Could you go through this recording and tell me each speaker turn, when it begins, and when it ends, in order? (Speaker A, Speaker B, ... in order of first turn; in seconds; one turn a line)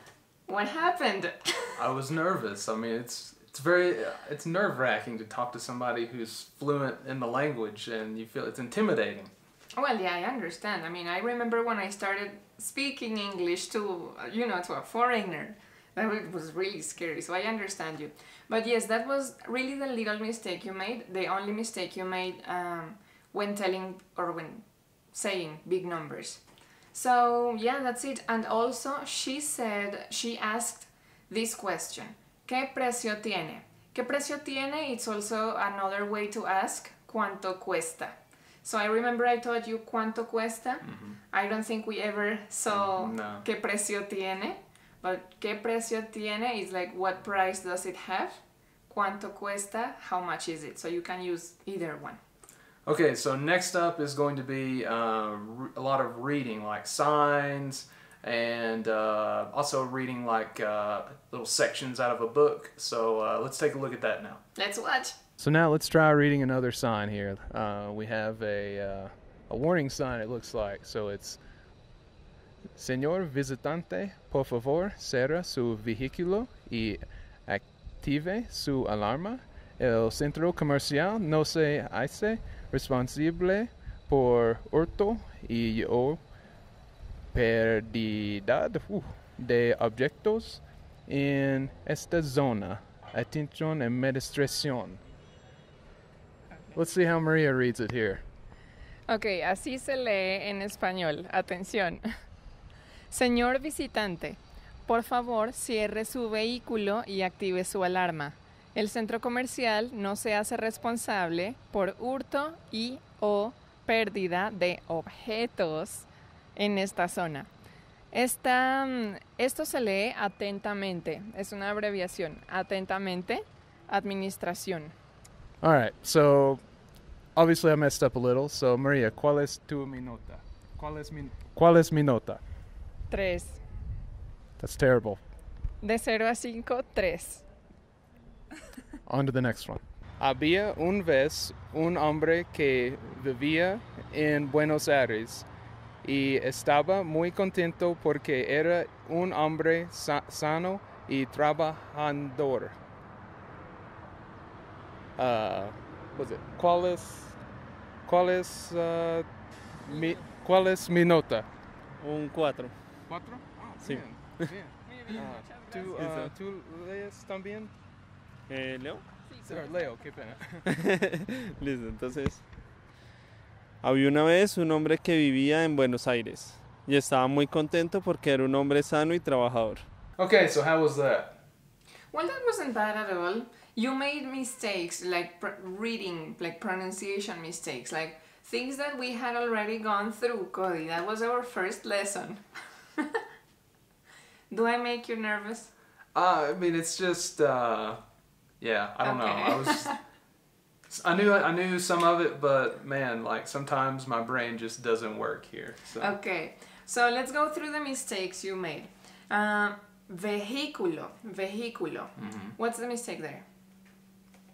Speaker A: 0.5-1.8
Speaker B: 1.8-9.3
Speaker A: 9.7-52.2
Speaker B: 40.8-41.2
Speaker B: 42.7-43.4
Speaker B: 52.9-64.4
Speaker A: 64.5-65.2
Speaker B: 65.4-66.8
Speaker C: 65.4-69.9
Speaker B: 67.3-70.8
Speaker C: 70.5-71.4
Speaker C: 72.8-86.2
Speaker C: 87.3-95.0
Speaker C: 96.8-98.2
Speaker A: 99.1-102.1
Speaker A: 103.1-117.5
Speaker A: 118.1-124.9
Speaker C: 125.6-126.4
Speaker B: 125.6-126.6
Speaker B: 127.3-128.8
Speaker C: 128.6-132.4
Speaker A: 133.1-133.6
Speaker C: 134.6-135.2
Speaker A: 135.8-137.4
Speaker C: 139.1-145.5
Speaker C: 146.0-152.8
Speaker C: 155.2-157.4
Speaker C: 158.1-161.5
Speaker D: 162.0-162.8
Speaker C: 163.1-167.7
Speaker D: 163.8-164.5
Speaker D: 165.9-166.3
Speaker D: 168.5-169.1
Speaker C: 169.4-170.7
Speaker D: 170.7-172.4
Speaker D: 173.8-179.9
Speaker B: 180.2-181.4
Speaker A: 182.1-193.2
Speaker A: 194.5-195.7
Speaker B: 196.1-198.0
Speaker B: 198.6-200.0
Speaker A: 199.0-200.0
Speaker B: 200.9-206.1
Speaker A: 206.0-213.4
Speaker B: 212.2-212.5